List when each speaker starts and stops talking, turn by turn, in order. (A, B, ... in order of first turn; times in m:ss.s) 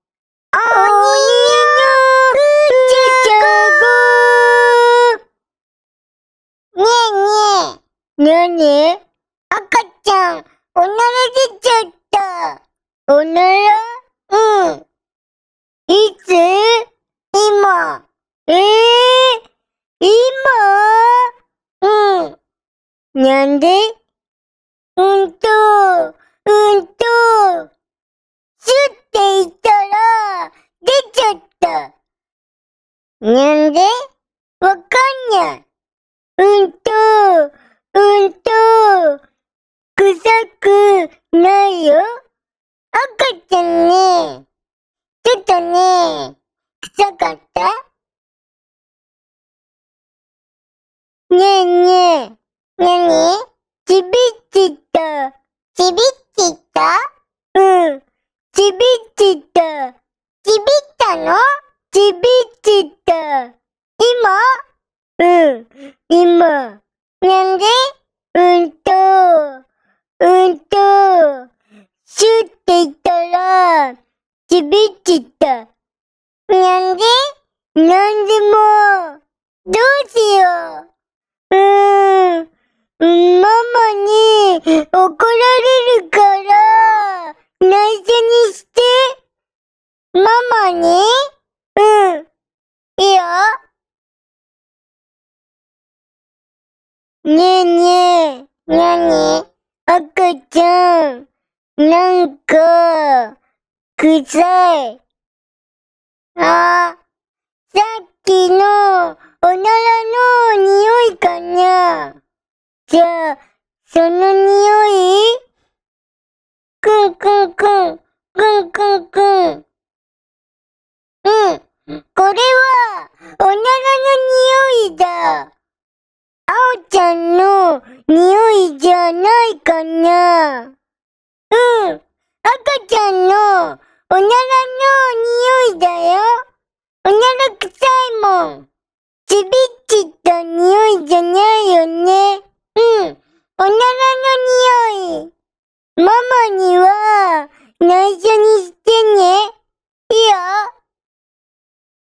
0:00.5-0:05.2 A
0:06.8-0:14.8 A
0:15.9-0:19.4 A
0:20.0-0:21.3 A
0:21.8-0:22.4 A
0:23.2-0:23.9 A
0:25.0-0:27.7 A
0:28.6-0:31.9 A
0:33.2-0:34.0 A
0:34.6-0:35.6 A
0:36.4-0:39.2 A
0:40.0-0:42.1 A
0:42.9-0:44.4 A
0:45.2-0:46.4 A
0:46.9-0:47.8 A
0:51.3-0:57.0 A
0:57.6-0:58.0 A
0:58.5-1:04.6 A
1:05.2-1:09.6 A
1:10.2-1:11.5 A
1:12.1-1:14.0 A
1:14.5-1:15.7 A
1:16.5-1:17.2 A
1:17.8-1:20.9 A
1:21.5-1:22.5 A
1:23.0-1:29.2 A
1:30.2-1:31.2 A
1:31.8-1:32.3 A
1:33.0-1:33.6 A
1:37.3-1:41.3 A
1:41.8-1:43.4 A
1:44.0-1:45.0 A
1:46.4-1:47.0 A
1:47.7-1:52.2 A
1:52.9-1:55.4 A
1:56.8-1:59.6 A
2:01.2-2:05.5 A
2:06.5-2:10.7 A
2:11.5-2:16.4 A
2:17.0-2:18.7 A
2:19.3-2:25.3 A
2:26.0-2:29.5 A
2:30.1-2:30.7 A